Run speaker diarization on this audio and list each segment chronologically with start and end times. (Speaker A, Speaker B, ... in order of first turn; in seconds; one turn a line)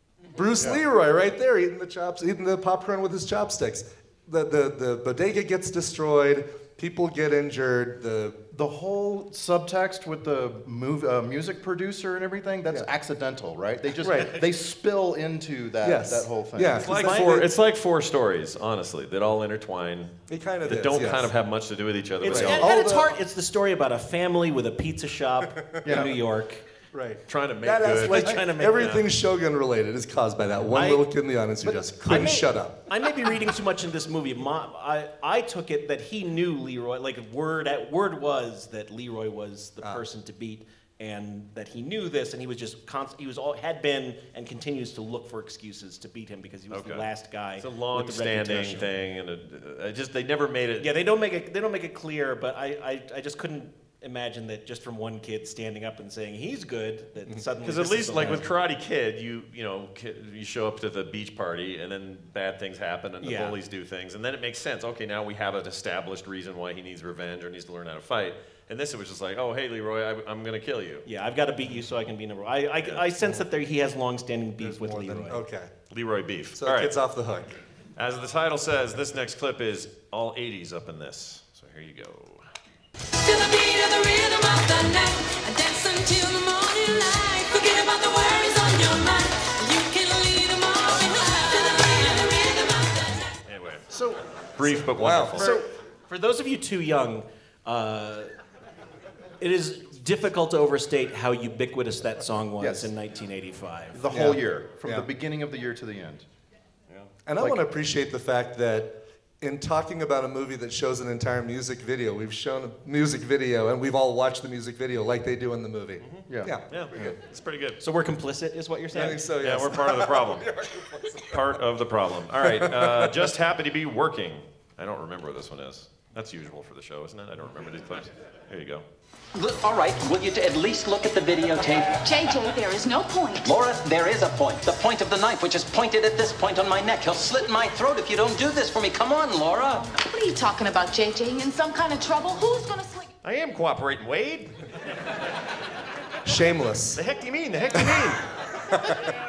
Speaker A: 0.3-8.4
Speaker B: 8.5-17.2
Speaker A: 14.0-14.4
Speaker A: 15.8-17.5
Speaker C: 16.8-20.1
Speaker A: 20.3-21.3
Speaker C: 20.6-22.7
Speaker D: 22.2-26.6
Speaker A: 22.2-23.1
Speaker A: 25.8-26.1
Speaker B: 25.9-26.1
Speaker A: 26.9-32.8
Speaker C: 27.3-29.0
Speaker D: 28.0-29.0
Speaker D: 30.7-31.1
Speaker D: 31.6-48.9
Speaker C: 46.7-47.0
Speaker C: 47.6-50.9
Speaker D: 50.8-58.4
Speaker C: 57.6-71.0
Speaker D: 63.2-63.5
Speaker D: 71.0-75.4
Speaker A: 74.6-75.7
Speaker C: 75.9-76.9
Speaker A: 76.6-77.5
Speaker C: 78.0-82.4
Speaker E: 83.2-93.3
Speaker C: 93.5-93.9
Speaker C: 94.5-95.5
Speaker A: 94.9-95.5
Speaker D: 95.4-98.3
Speaker D: 99.4-104.0
Speaker B: 102.6-102.9
Speaker B: 103.9-106.2
Speaker A: 104.1-105.1
Speaker A: 107.2-117.1
Speaker C: 116.0-117.8
Speaker B: 116.3-117.1
Speaker D: 117.8-119.2
Speaker A: 118.9-121.2
Speaker C: 119.4-120.5
Speaker C: 121.3-128.8
Speaker A: 122.4-123.2
Speaker F: 129.3-131.9
Speaker G: 132.0-133.5
Speaker F: 133.4-139.9
Speaker G: 140.0-143.1
Speaker C: 143.2-144.5
Speaker A: 146.2-147.0
Speaker C: 146.9-148.2